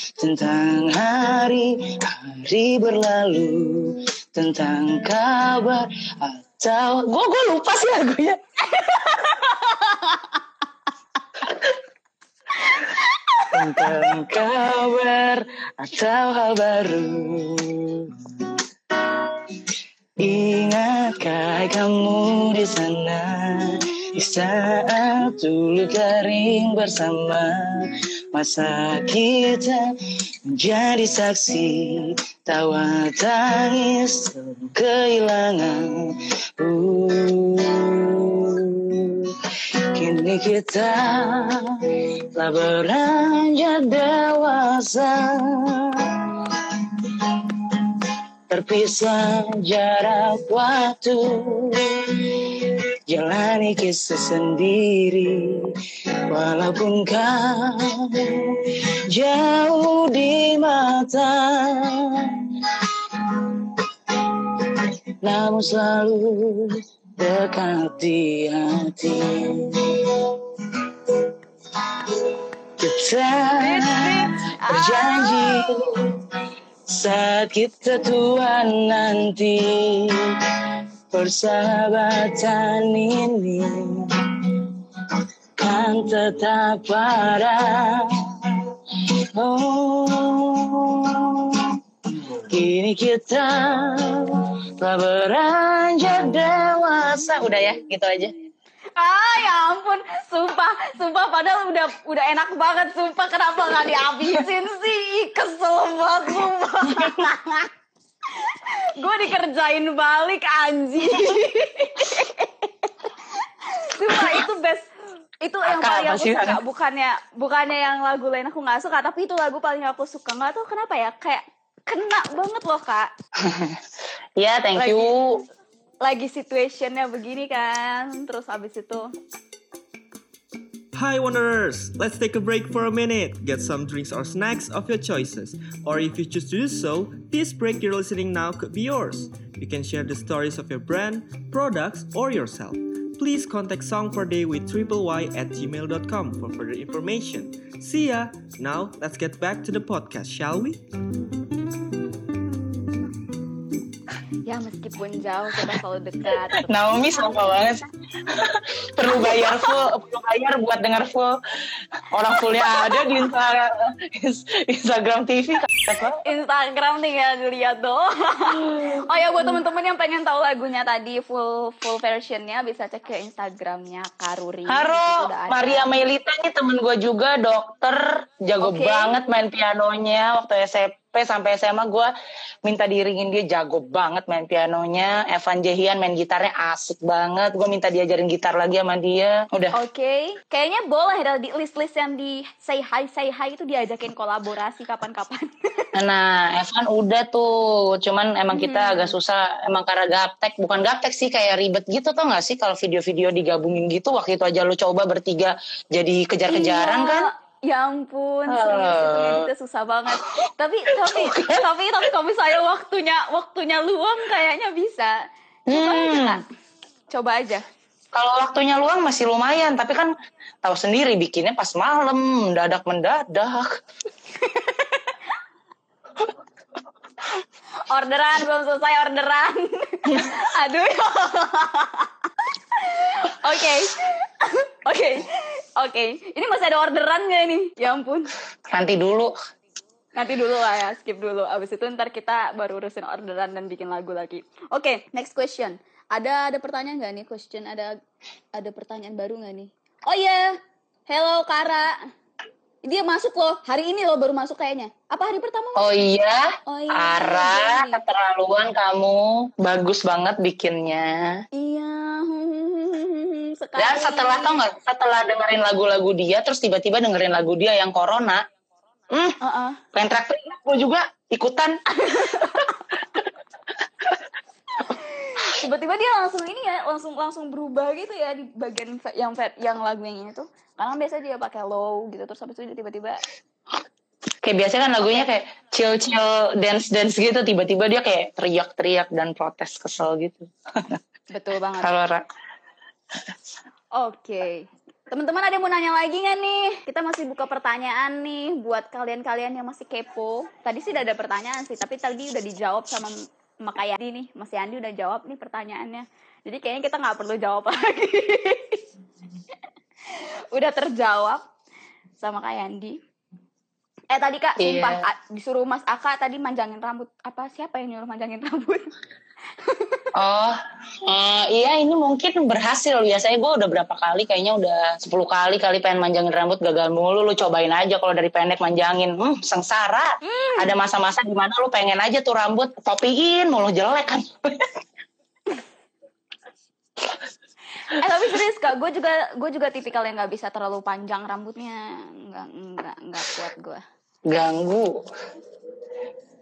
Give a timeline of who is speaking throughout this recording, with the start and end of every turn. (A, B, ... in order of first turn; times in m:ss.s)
0:00.2-0:08.4 A
0:08.7-0:10.3 B
0:12.6-0:13.9 B
0:13.5-0:29.9 A
0:30.5-0:39.4 A
0:39.9-0:55.7 A
0:56.3-1:16.2 A
1:13.6-1:15.8 B
1:16.9-1:38.3 A
1:39.0-1:47.7 B
1:48.4-1:53.1 B
1:53.8-1:54.9 B
1:54.1-1:54.4 A
1:55.4-2:03.1 B
1:55.6-1:56.6 A
2:03.4-2:03.8 A
2:04.4-2:05.4 A
2:04.7-2:05.1 B
2:06.0-2:09.1 B
2:10.9-2:30.8 C
2:34.4-2:37.5 B
2:36.5-2:41.4 A
2:39.2-2:39.8 B
2:42.1-2:46.2 A
2:42.3-2:43.1 B
2:46.2-2:55.8 B
2:48.7-2:49.0 A
2:54.7-3:02.1 A
2:58.6-2:59.2 B
3:02.6-3:09.7 A
3:09.7-3:15.9 B
3:16.0-3:27.3 A
3:18.5-3:19.1 B
3:26.5-3:35.2 B
3:28.5-3:29.5 A
3:30.9-3:31.6 A
3:35.7-3:36.4 A
3:35.7-3:36.4 B
3:37.1-3:37.6 B
3:38.1-3:43.8 A
3:44.4-3:45.0 B
3:47.9-3:52.1 B
3:52.8-3:58.3 B
3:58.7-3:59.3 A
4:00.2-4:08.0 B
4:08.5-4:12.0 B
4:12.8-4:16.0 B
4:15.8-4:21.4 A
4:16.7-4:18.0 B
4:21.6-4:24.6 B
4:23.8-4:28.4 A
4:29.1-4:29.4 A
4:29.4-4:29.8 B
4:29.9-4:31.8 A
4:32.0-4:32.8 B
4:34.9-4:43.2 B
4:44.4-4:51.0 A
4:51.3-4:51.9 B
4:51.8-4:52.2 A
4:53.9-5:08.8 B
5:10.1-5:11.4 B
5:12.2-5:13.0 B
5:14.1-5:18.9 B
5:14.6-5:15.0 A
5:19.6-5:20.1 B
5:20.2-5:34.7 A
5:30.2-5:30.7 B
5:37.9-5:43.8 B
5:44.3-5:45.0 A